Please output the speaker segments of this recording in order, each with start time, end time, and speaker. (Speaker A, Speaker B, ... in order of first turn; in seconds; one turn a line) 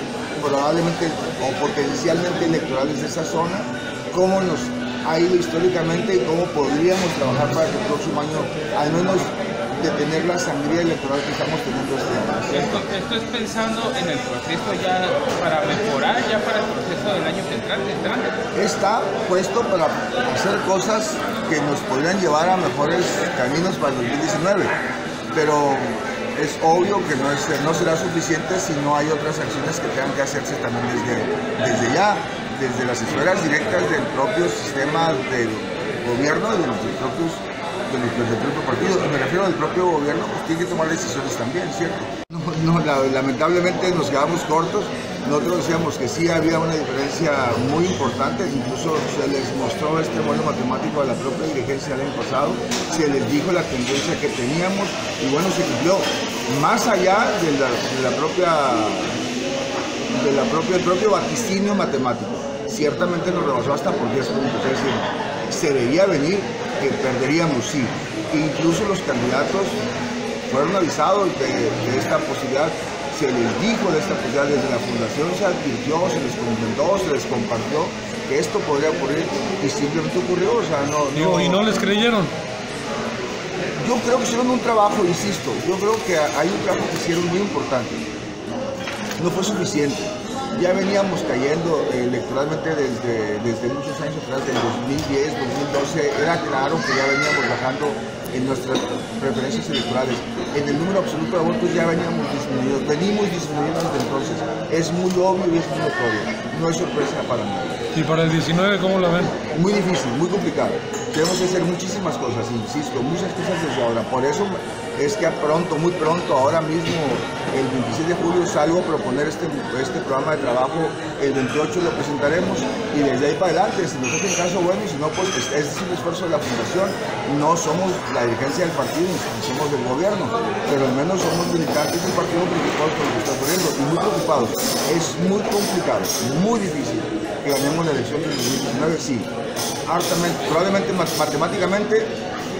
Speaker A: 0.4-12.8
Speaker B: 12.5-18.4
Speaker A: 18.5-24.8
Speaker A: 25.3-59.2
Speaker A: 60.1-69.8
Speaker A: 70.5-81.6
Speaker C: 81.1-82.3
Speaker A: 83.8-88.0
Speaker A: 89.2-107.9
Speaker C: 107.9-109.3
Speaker A: 109.4-139.3
Speaker A: 139.9-142.1